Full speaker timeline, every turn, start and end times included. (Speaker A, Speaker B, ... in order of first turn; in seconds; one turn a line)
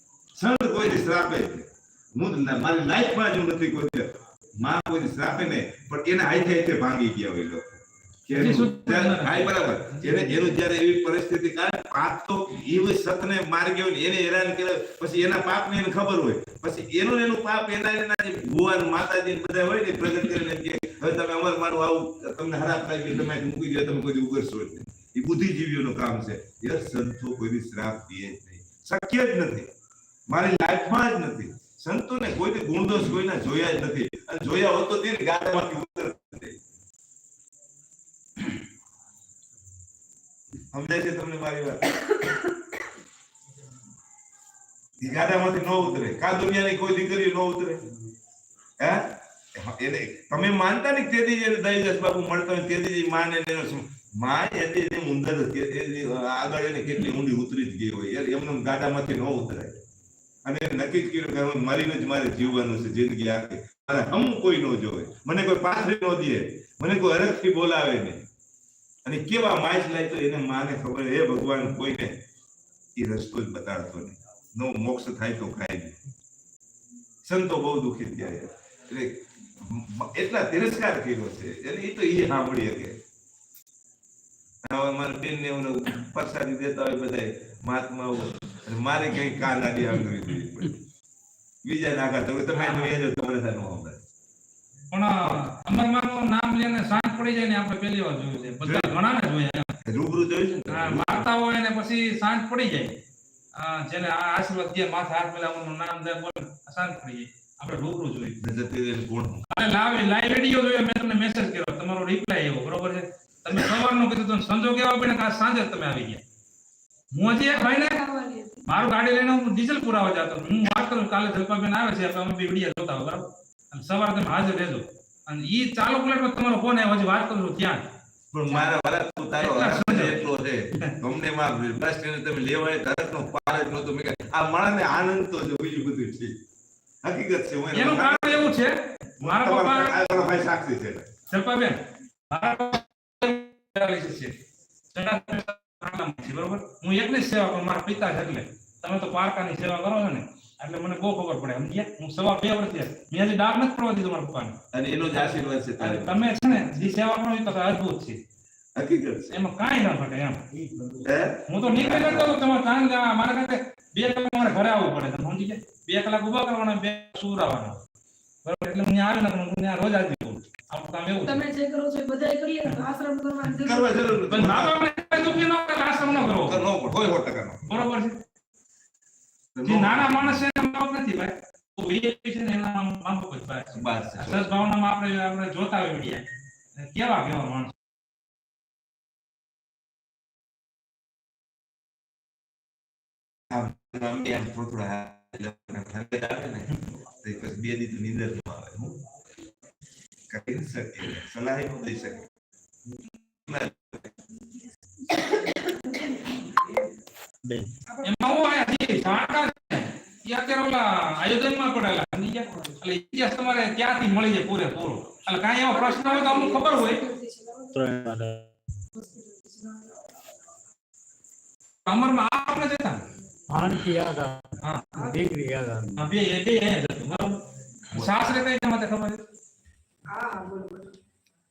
Speaker A: 0.3-29.7
Speaker B: 8.3-9.5
Speaker A: 30.3-36.6
Speaker A: 40.7-41.9
Speaker A: 45.0-47.8
Speaker A: 48.8-59.8
Speaker A: 60.4-68.3
Speaker A: 69.0-72.2
Speaker A: 73.0-76.0
Speaker A: 77.2-83.0
Speaker A: 84.6-90.8
Speaker A: 91.6-94.0
Speaker B: 92.5-92.9
Speaker B: 94.9-99.7
Speaker A: 98.6-98.9
Speaker A: 99.8-101.3
Speaker B: 100.7-103.0
Speaker B: 103.5-108.4
Speaker A: 108.4-109.5
Speaker B: 109.5-116.2
Speaker B: 117.1-118.0
Speaker C: 117.2-118.7
Speaker B: 118.7-127.8
Speaker A: 128.3-136.4
Speaker B: 129.4-130.2
Speaker A: 137.0-138.6
Speaker B: 137.7-140.2
Speaker A: 139.2-141.1
Speaker B: 141.3-144.4
Speaker B: 144.9-154.6
Speaker A: 154.7-156.9
Speaker B: 155.2-158.2
Speaker A: 158.8-159.4
Speaker B: 159.3-160.4
Speaker D: 160.5-161.1
Speaker A: 161.0-162.4
Speaker B: 161.5-167.8
Speaker B: 168.4-171.4
Speaker C: 171.2-174.1
Speaker A: 173.6-175.4
Speaker B: 174.3-176.6
Speaker A: 176.1-177.8
Speaker B: 177.7-178.2
Speaker A: 179.5-180.4
Speaker B: 179.6-186.2
Speaker A: 183.7-184.5
Speaker B: 186.8-187.7
Speaker A: 193.5-199.0
Speaker A: 200.3-202.2
Speaker A: 203.5-204.1
Speaker C: 205.1-206.5
Speaker D: 207.4-207.7
Speaker C: 207.9-208.3
Speaker B: 208.0-217.0
Speaker C: 215.7-217.9
Speaker D: 217.7-218.5
Speaker C: 218.9-220.1
Speaker B: 221.8-223.1
Speaker D: 223.5-226.1
Speaker B: 224.6-225.0
Speaker B: 226.0-227.4
Speaker B: 227.9-229.2
Speaker C: 230.1-230.9